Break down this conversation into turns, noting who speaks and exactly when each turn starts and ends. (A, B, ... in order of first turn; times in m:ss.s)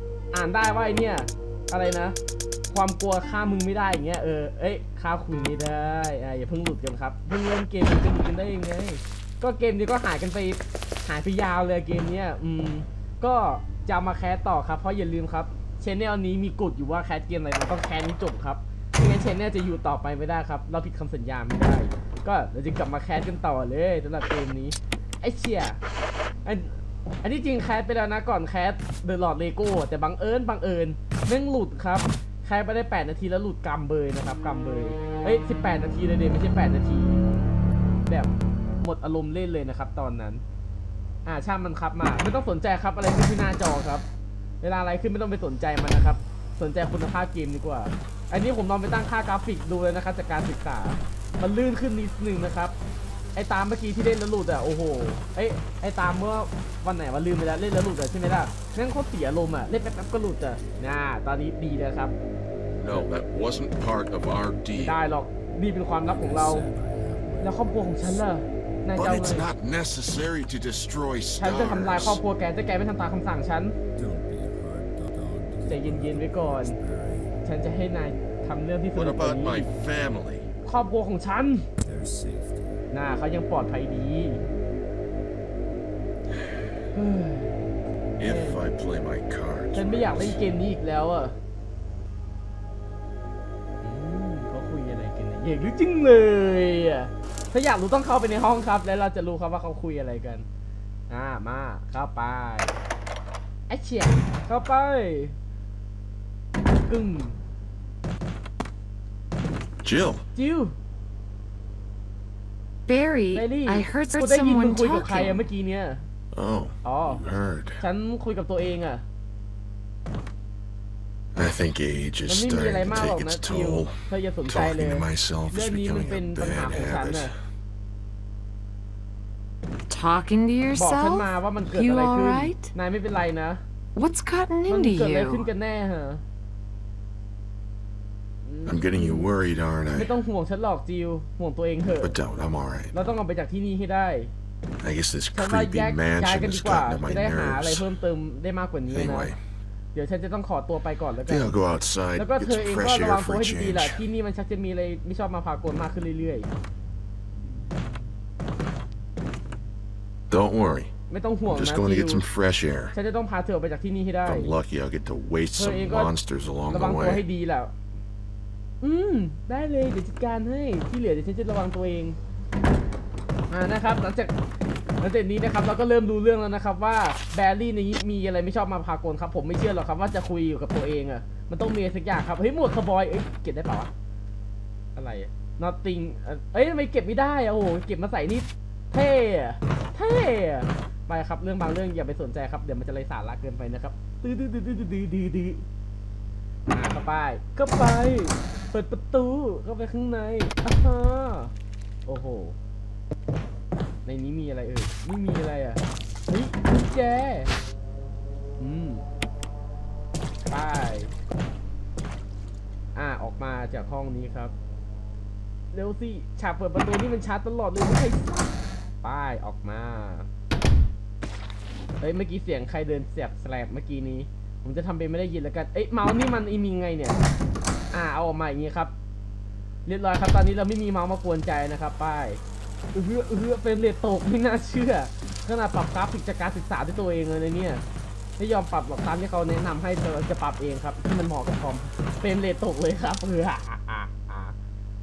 0:00.3-0:02.2 A
0:02.7-0:25.8 A
0:26.4-0:37.2 A
0:38.0-0:40.4 A
0:41.2-0:44.0 A
0:44.6-0:52.7 A
0:53.4-1:02.1 A
1:02.8-1:05.0 B
1:04.7-1:06.7 A
1:06.0-1:08.3 C
1:07.4-1:09.5 A
1:08.9-1:12.2 B
1:11.4-1:13.8 A
1:14.0-1:17.3 C
1:15.7-1:16.8 A
1:17.4-1:19.7 A
1:18.9-1:20.5 B
1:20.6-1:21.6 A
1:21.8-1:22.8 C
1:22.9-1:24.4 A
1:26.9-1:27.6 A
1:28.2-1:30.4 B
1:28.2-1:28.6 A
1:29.7-1:31.4 A
1:33.8-1:40.4 A
1:41.1-1:42.8 A
1:43.7-1:45.3 A
1:46.9-1:47.4 A
1:49.8-1:50.2 B
1:50.3-1:50.8 A
1:52.9-1:55.4 D
1:53.3-1:56.0 A
1:56.3-1:57.8 B
1:56.8-1:57.2 A
1:57.8-1:59.0 A
2:01.3-2:07.3 B
2:02.3-2:07.3 A
2:09.9-2:12.7 D
2:10.7-2:13.6 A
2:14.0-2:15.5 D
2:14.7-2:16.2 A
2:18.4-2:19.3 A
2:18.6-2:20.1 B
2:19.9-2:22.2 A
2:22.0-2:22.9 B
2:22.9-2:24.3 A
2:24.8-2:27.9 B
2:25.3-2:29.3 A
2:28.9-2:29.4 B
2:29.9-2:31.6 A
2:31.2-2:34.0 B
2:32.1-2:36.5 A
2:40.3-2:40.9 B
2:41.1-2:42.2 A
2:41.5-2:42.9 B
2:42.9-2:44.5 A
2:44.2-2:47.2 B
2:45.6-2:46.1 A
2:46.7-2:47.7 A
2:48.8-2:52.2 A
2:53.5-2:54.3 A
2:55.0-3:03.9 A
3:05.0-3:15.6 A
3:16.7-3:21.5 A
3:22.1-3:22.5 A
3:24.0-3:27.5 A
3:28.6-3:29.0 A
3:30.4-3:31.1 A
3:32.9-3:34.5 A
3:35.7-3:40.3 A
3:42.0-3:47.2 A
3:47.9-3:48.9 A
3:49.8-3:52.4 A
3:52.9-3:57.8 A
3:58.4-4:04.5 A